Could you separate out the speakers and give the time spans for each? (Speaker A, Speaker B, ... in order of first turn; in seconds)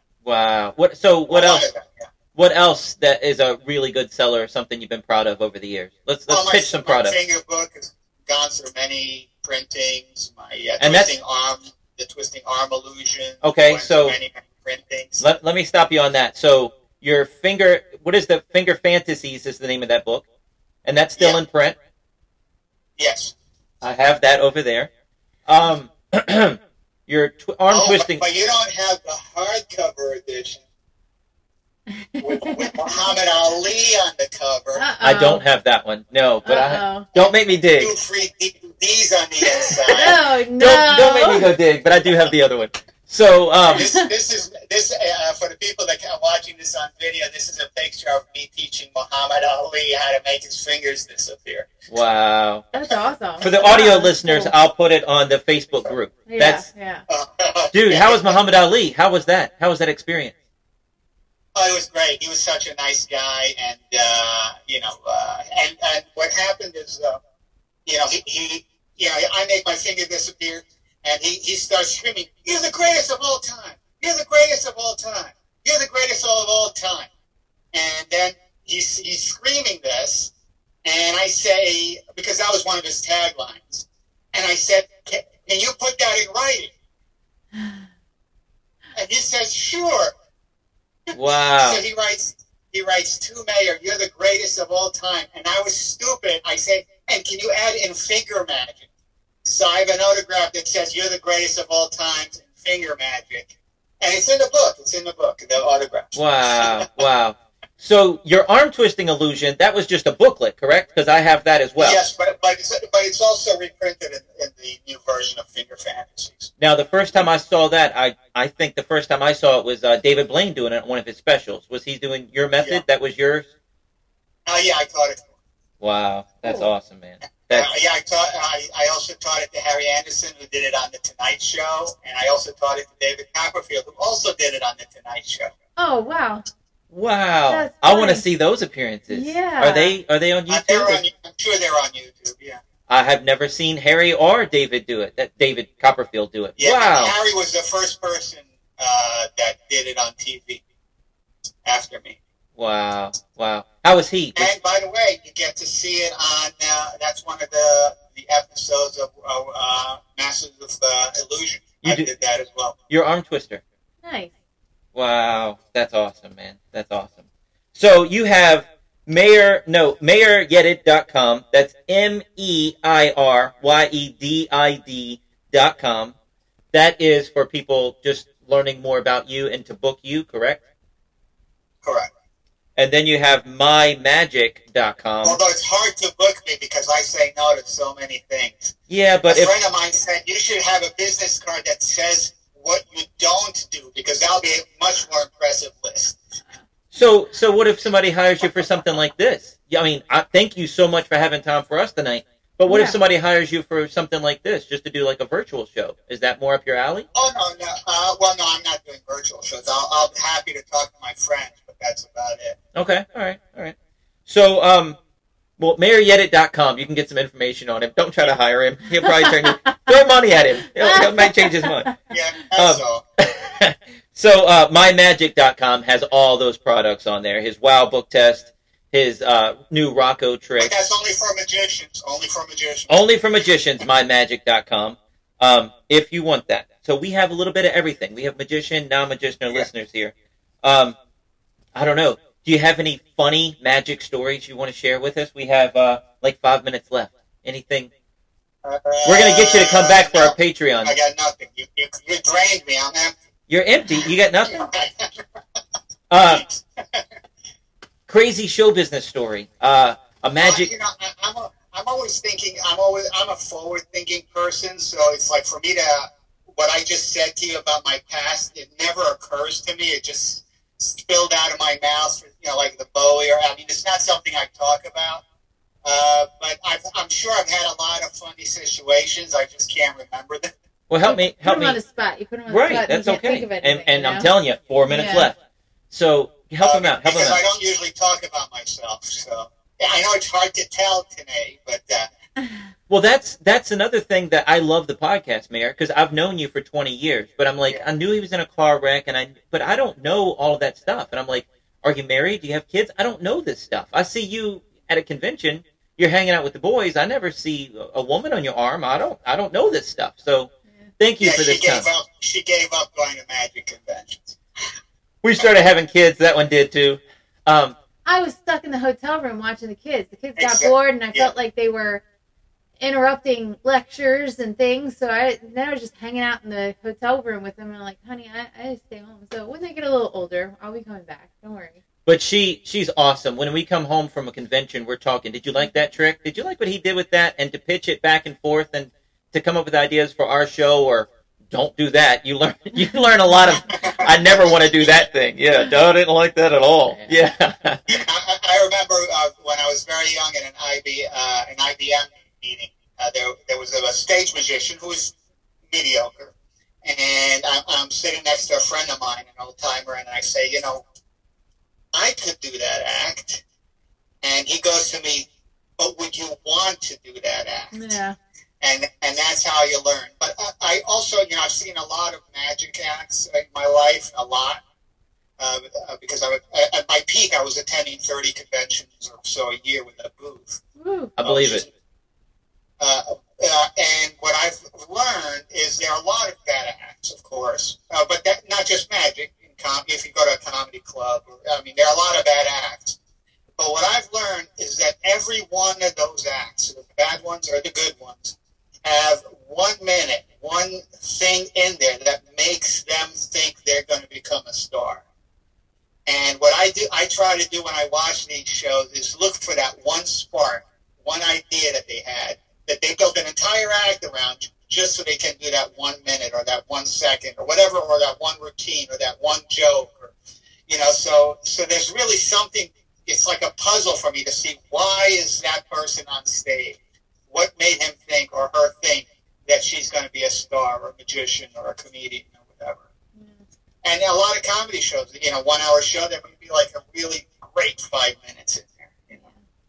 Speaker A: 0.2-1.7, 2.3-7.2, 10.8-11.1, 13.4-14.2, 15.2-20.2, 20.8-21.8, 23.8-24.9, 25.5-28.2, 35.0-37.9, 40.6-43.9, 51.9-52.6, 53.4-56.6, 57.7-60.3, 91.1-91.8, 106.1-112.0, 116.6-123.5, 125.8-127.7, 136.9-141.0, 142.9-147.1, 152.6-154.5, 161.8-162.1, 162.9-163.6, 164.9-176.1, 176.7-180.6, 182.8-185.4, 188.9-189.5, 196.9-207.1, 212.7-215.0, 215.6-221.9, 222.5-230.7, 232.9-240.9, 241.7-247.9, 249.0-250.9, 253.5-254.6, 256.1-256.4, 258.1-260.7, 280.9-281.8, 282.5-285.4, 285.9-287.4, 292.9-311.9, 315.2-317.8, 332.1-347.9, 381.2-381.6
Speaker B: 1.3-2.1, 6.3-15.2, 21.2-21.4, 23.0-23.3, 27.7-30.6, 32.2-34.8, 37.1-40.2, 43.7-51.7, 57.1-58.4, 61.5-67.2, 67.8-77.1, 77.7-80.3, 80.8-86.7, 89.0-90.1, 91.1-98.9, 99.4-106.8, 111.8-116.5, 124.5-125.3, 127.5-135.5, 140.5-142.6, 146.6-150.6, 151.6-152.2, 154.3-162.8, 181.8-182.1, 185.2-188.7, 189.3-196.2, 207.1-212.6, 222.1-223.1, 230.6-233.0, 248.6-253.1, 254.5-255.2, 256.2-257.0, 260.4-275.2, 275.8-280.5, 286.6-292.1, 311.2-314.4, 320.4-321.3, 343.8-344.9, 347.9-355.1, 355.7-360.8, 361.9-363.4, 364.2-365.3, 365.8-367.8, 368.6-374.6, 375.4-380.6, 381.2-381.7, 382.8-393.0, 393.6-405.0, 406.1-420.1, 420.7-426.8, 427.3-432.9, 433.8-439.2
Speaker C: 31.9-33.0, 34.7-35.4, 36.4-37.1, 39.8-41.5, 52.7-54.5, 56.3-57.0, 126.4-126.7, 135.8-136.4, 137.5-138.2, 139.1-139.9, 164.0-164.3, 202.7-203.0, 220.8-221.9, 281.0-284.3, 284.9-285.3, 318.0-322.0, 322.8-331.8, 367.7-368.1, 380.8-381.1, 433.1-433.4